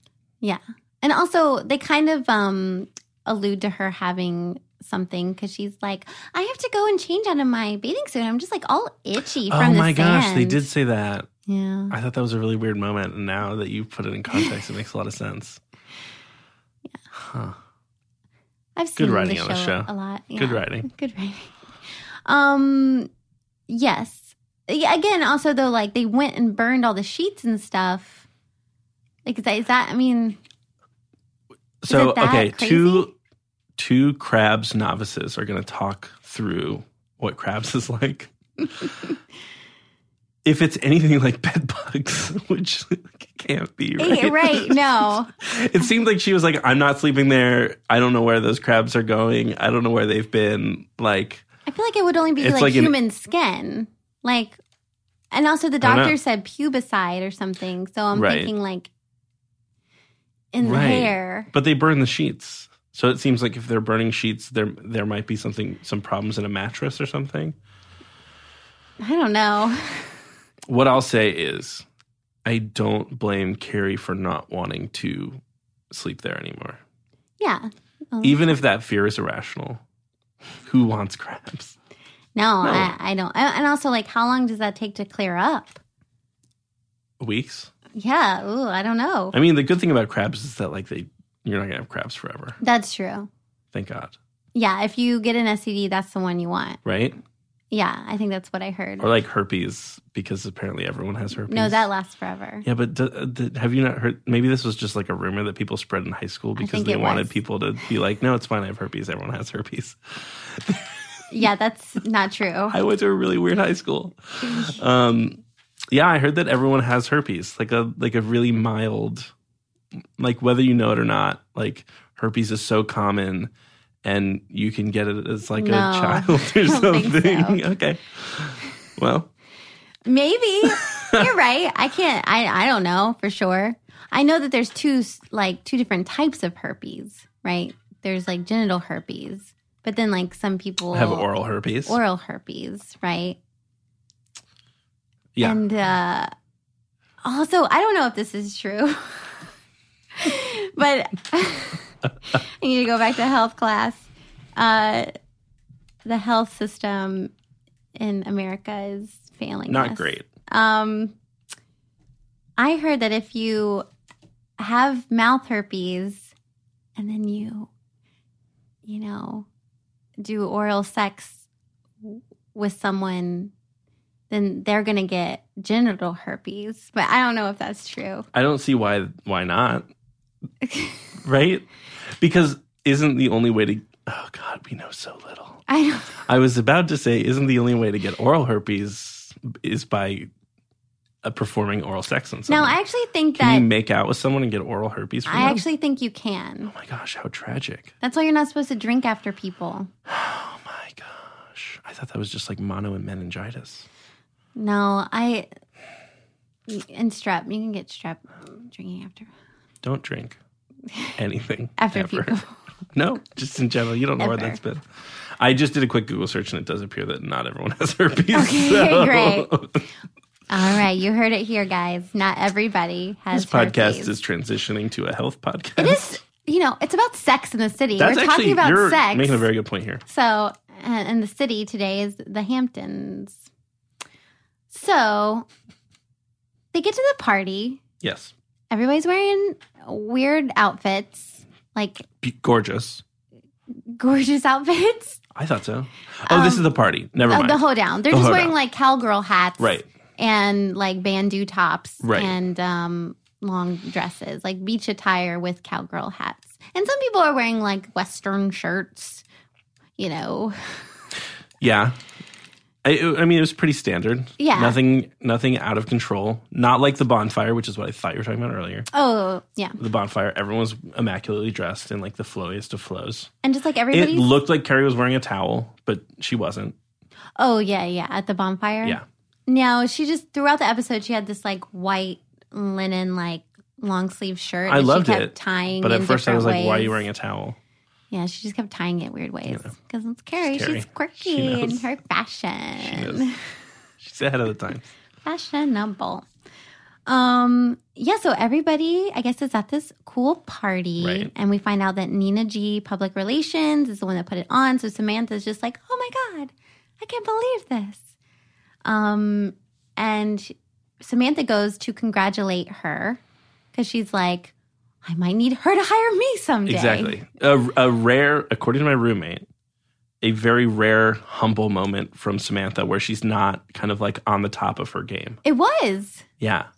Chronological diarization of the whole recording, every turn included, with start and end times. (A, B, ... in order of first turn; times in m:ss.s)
0:00.4-0:10.7 A
0:09.5-0:11.3 B
0:11.5-0:11.9 A
0:11.9-0:15.6 B
0:17.1-0:17.6 B
0:18.8-0:23.1 A
0:19.0-0:20.9 B
0:23.7-0:28.2 A
0:29.2-0:30.4 A
0:31.8-0:33.1 B
0:31.9-0:33.1 A
0:33.8-0:38.8 B
0:40.4-0:51.4 B
0:44.0-0:45.3 A
0:51.6-0:54.6 A
0:52.4-0:52.9 B
0:55.3-0:58.9 A
0:55.8-0:56.1 B
0:58.1-0:58.5 B
1:00.5-1:01.5 A
1:00.6-1:07.6 B
1:09.0-1:10.2 A
1:10.7-1:11.8 B
1:12.4-1:15.4 B
1:15.9-1:16.8 B
1:17.4-1:18.5 A
1:18.2-1:19.8 B
1:20.6-1:21.8 B
1:22.4-1:25.8 A
1:22.6-1:22.9 B
1:27.2-1:27.7 B
1:27.9-1:29.4 A
1:29.3-1:32.6 B
1:32.6-1:33.3 A
1:33.7-1:34.2 B
1:34.5-1:36.8 A
1:36.8-1:37.2 B
1:37.7-1:39.1 A
1:39.0-1:41.9 B
1:41.5-1:42.6 A
1:42.6-1:51.0 B
1:46.6-1:47.4 A
1:51.3-1:52.8 A
1:52.7-1:55.4 B
1:55.9-1:59.3 B
2:00.2-2:03.5 B
2:04.0-2:09.3 B
2:05.5-2:07.6 A
2:10.0-2:21.3 A
2:10.6-2:11.3 B
2:20.9-2:22.0 B
2:21.8-2:23.4 A
2:25.4-2:26.3 A
2:27.2-2:29.4 A
2:30.2-2:35.1 A
2:36.0-2:37.3 A
2:38.0-2:41.1 A
2:39.7-2:40.3 B
2:42.6-2:43.8 A
2:44.6-2:46.3 A
2:47.0-2:47.7 A
2:48.8-2:49.5 A
2:50.2-2:51.4 A
2:52.0-2:53.5 A
2:54.3-2:58.3 A
2:58.3-2:59.9 B
3:00.6-3:01.0 A
3:01.2-3:05.6 B
3:05.7-3:06.2 A
3:06.2-3:10.3 B
3:11.2-3:12.8 B
3:12.5-3:13.7 A
3:13.3-3:15.6 B
3:15.3-3:16.7 A
3:16.7-3:17.9 B
3:18.0-3:19.9 A
3:20.1-3:23.9 B
3:24.6-3:25.5 A
3:26.7-3:29.3 A
3:29.8-3:30.4 B
3:31.2-3:32.4 B
3:31.8-3:32.6 A
3:32.9-3:39.9 B
3:34.2-3:34.6 A
3:38.3-3:39.5 A
3:40.5-3:44.1 A
3:43.3-3:46.2 B
3:45.8-3:49.5 A
3:48.0-3:50.0 B
3:50.0-3:53.4 A
3:54.7-3:55.4 A
3:56.7-3:57.8 A
3:58.0-3:58.3 B
3:58.7-4:02.0 A
4:02.2-4:03.0 B
4:03.9-4:05.2 A
4:05.3-4:08.5 B
4:06.3-4:06.6 A
4:07.3-4:19.2 A
4:09.6-4:09.9 B
4:12.0-4:12.3 B
4:20.0-4:20.8 A
4:21.6-4:22.0 B
4:22.8-4:28.9 B
4:24.4-4:24.8 A
4:28.9-4:29.8 A
4:29.8-4:33.3 B
4:33.4-4:34.3 A
4:33.9-4:36.8 B
4:37.4-4:47.0 A
4:44.7-4:47.6 B
4:48.1-4:53.4 A
4:49.5-4:49.7 B
4:50.4-4:51.9 B
4:52.8-4:53.3 B
4:54.0-4:54.9 B
4:55.2-4:56.3 A
4:57.1-5:08.0 A
5:01.0-5:01.3 B
5:08.8-5:13.2 A
5:13.7-5:14.5 A
5:15.0-5:17.2 A
5:16.6-5:19.5 B
5:20.2-5:25.4 B
5:25.4-5:26.2 A
5:26.4-5:26.7 B